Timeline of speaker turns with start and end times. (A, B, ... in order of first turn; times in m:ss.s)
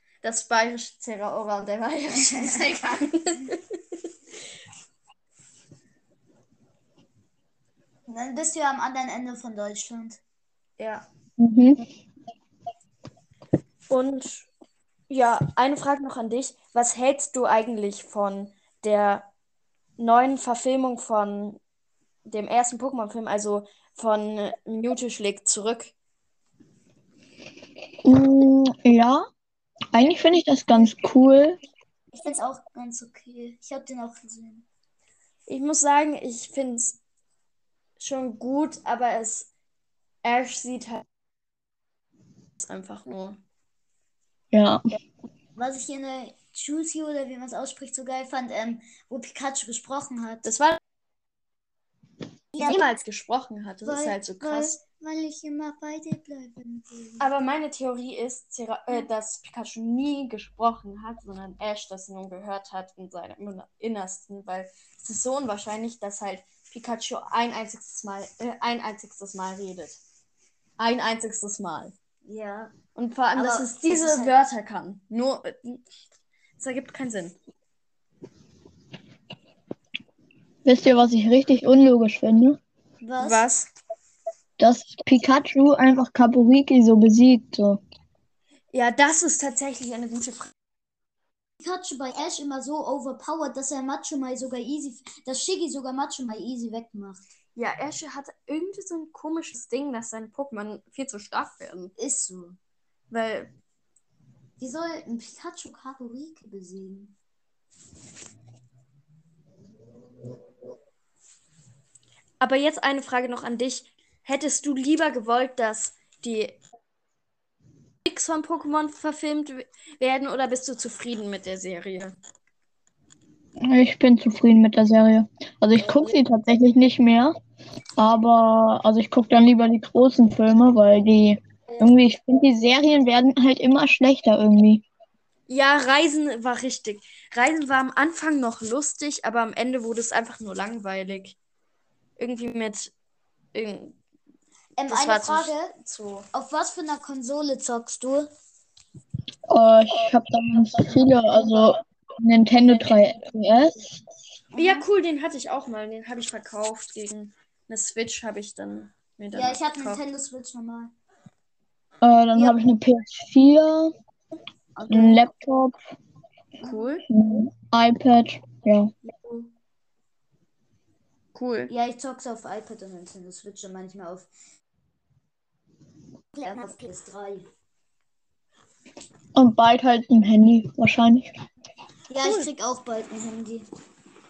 0:00.2-0:03.6 A
0:02.1-0:02.5 B
0:08.1-0:10.2 B
0:10.8-0:11.1 A
0:11.4-0:11.8 C
0:13.9-0:14.5 A
0:15.1-0:19.3 A
0:20.0-0:21.6 A
0:22.2-0:25.9 A
0:28.0-0:29.2 C
0:29.9-0:31.6 C
0:32.1-0:34.6 B
0:35.5-0:37.0 A
0:38.0-0:39.5 A
0:40.2-0:41.0 A
0:42.6-0:43.4 A
0:44.5-0:44.8 C
0:45.6-0:50.5 B
0:50.4-0:50.8 A
0:52.6-0:52.8 B
0:52.6-0:54.8 A
0:53.8-0:57.3 B
0:57.2-1:10.0 A
1:10.8-1:11.9 A
1:12.2-1:12.7 B
1:13.0-1:15.8 A
1:13.4-1:14.4 B
1:16.6-1:17.4 A
1:20.6-1:22.6 C
1:23.0-1:23.5 B
1:23.2-1:23.7 A
1:24.6-1:27.8 C
1:28.7-1:30.5 A
1:31.6-1:37.3 B
1:37.6-1:41.9 A
1:42.0-1:42.6 B
1:43.1-1:43.5 A
1:44.6-1:47.1 B
1:52.4-1:56.6 A
1:58.0-2:02.2 A
2:03.6-2:07.3 C
2:05.8-2:06.2 B
2:08.0-2:14.8 C
2:15.5-2:21.4 A
2:22.2-2:22.9 A
2:23.5-2:24.0 A
2:24.8-2:25.7 B
2:24.9-2:26.3 A
2:26.3-2:28.3 B
2:29.5-2:33.9 C
2:34.5-2:34.9 B
2:34.6-2:40.0 A
2:39.3-2:40.9 B
2:42.0-2:43.9 C
2:42.3-2:42.6 B
2:44.8-2:45.3 B
2:44.9-2:45.8 C
2:46.6-2:47.0 A
2:47.1-2:48.9 C
2:49.1-2:49.5 A
2:51.3-2:51.7 A
2:51.7-2:54.3 B
2:56.4-2:57.5 B
2:59.4-3:01.4 C
3:02.1-3:03.6 B
3:02.2-3:02.5 A